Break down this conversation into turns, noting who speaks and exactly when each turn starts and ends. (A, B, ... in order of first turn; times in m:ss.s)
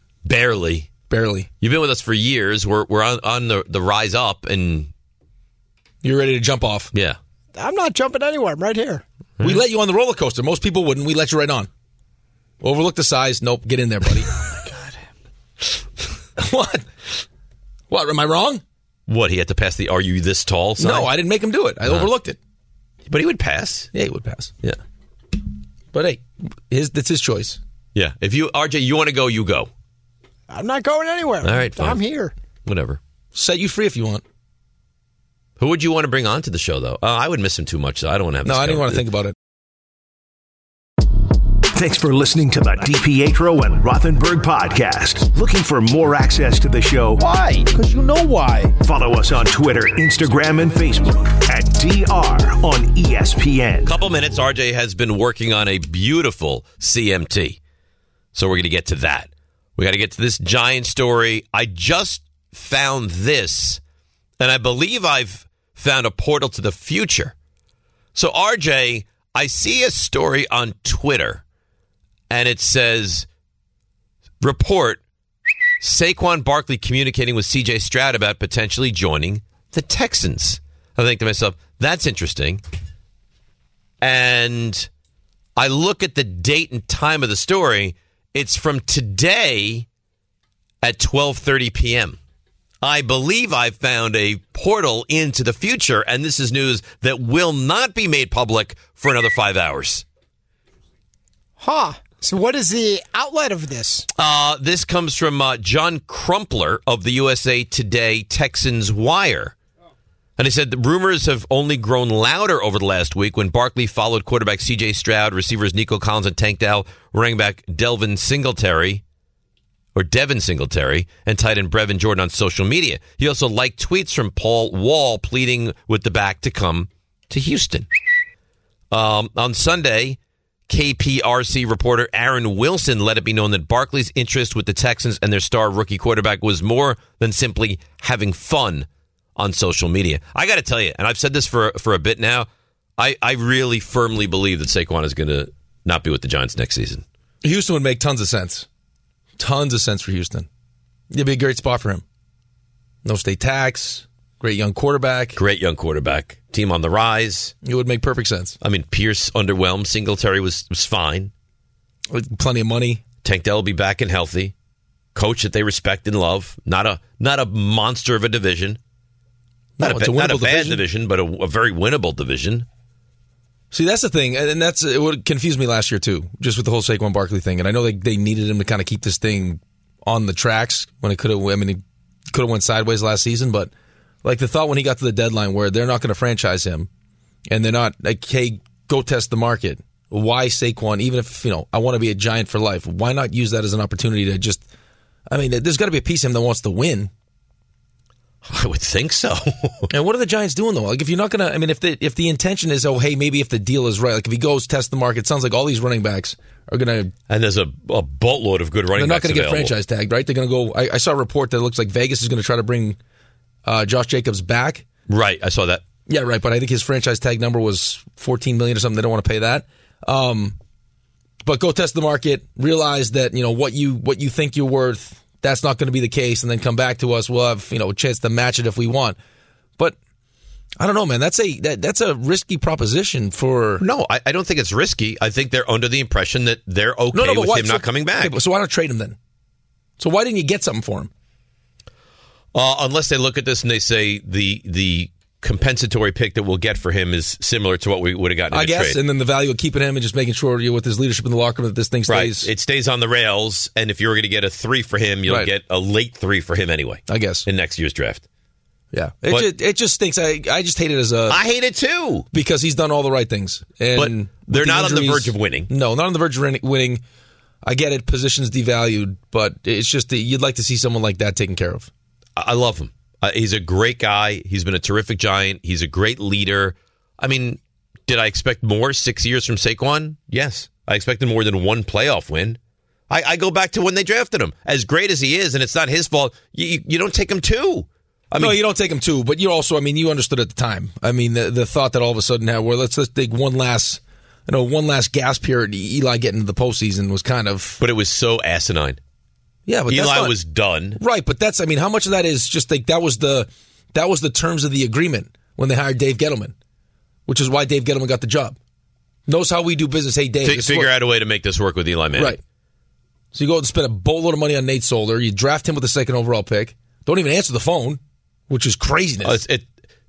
0:00.2-0:00.9 A
0:01.1-0:01.5 B
0:01.6-0:04.9 A
0:06.0-0:06.9 B
0:07.6-0:09.0 C
0:09.4-0:11.7 B
0:12.6-0:14.3 B
0:16.4-0:16.9 B
0:17.9-0:18.6 B
0:19.1-0:21.1 A
0:20.8-0:22.4 B
0:21.8-0:22.1 A
0:23.1-0:23.9 A
0:23.9-0:24.5 B
0:25.9-0:27.6 B
0:28.0-0:29.7 A
0:30.5-0:32.3 C
0:31.4-0:32.0 A
0:32.6-0:33.0 A
0:33.4-0:34.2 B
0:35.6-0:39.0 A
0:38.4-0:39.4 B
0:41.7-0:47.2 D
0:47.2-0:47.7 A
0:47.7-0:48.7 B
0:48.8-0:54.0 D
0:53.8-0:57.6 A
0:58.4-1:03.8 A
1:04.4-1:07.3 A
1:08.2-1:11.4 A
1:12.3-1:13.3 A
1:14.4-1:15.0 A
1:15.8-1:22.6 A
1:24.0-1:24.9 A
1:25.6-1:29.9 A
1:30.8-1:32.2 A
1:32.8-1:40.0 A
1:41.6-1:44.1 C
1:44.2-1:49.6 A
1:50.4-1:59.0 A
2:00.0-2:07.9 A
2:08.9-2:10.2 A
2:10.7-2:27.0 A
2:27.4-2:28.7 B
2:29.4-2:30.5 B
2:31.1-2:32.0 B
2:33.0-2:35.4 B
2:35.4-2:37.5 A
2:37.6-2:38.6 B
2:38.6-2:41.3 A
2:42.1-2:43.0 B
2:43.2-2:44.5 A
2:45.2-2:48.8 A
2:49.8-2:50.8 B
2:49.8-2:52.7 A
2:53.7-3:03.7 B
3:04.2-3:06.9 B
3:07.5-3:14.6 B
3:15.3-3:17.1 B
3:18.4-3:19.9 A
3:19.9-3:27.1 B
3:27.3-3:29.7 A
3:29.0-3:33.0 B
3:33.6-3:34.8 B
3:35.1-3:35.9 A
3:36.1-3:40.6 B
3:41.4-3:49.2 B
3:50.8-3:53.8 B
3:53.8-3:58.3 A
3:57.1-3:59.2 B
4:00.0-4:01.1 B
4:02.5-4:09.0 A
4:08.5-4:12.5 B
4:12.1-4:18.2 A
4:17.1-4:17.5 B
4:18.9-4:21.4 B
4:21.3-4:22.3 A
4:22.3-4:27.0 B
4:24.0-4:25.7 A
4:27.6-4:31.9 B
4:32.4-4:42.6 A
4:43.1-4:48.6 A
4:48.4-4:57.8 B
4:57.8-4:59.0 A
4:59.7-5:00.4 B
4:59.9-5:01.0 A
5:01.0-5:06.5 B
5:07.3-5:08.6 B
5:09.3-5:10.9 B
5:10.4-5:12.4 A
5:12.2-5:12.4 B
5:13.3-5:19.4 B
5:19.2-5:19.7 A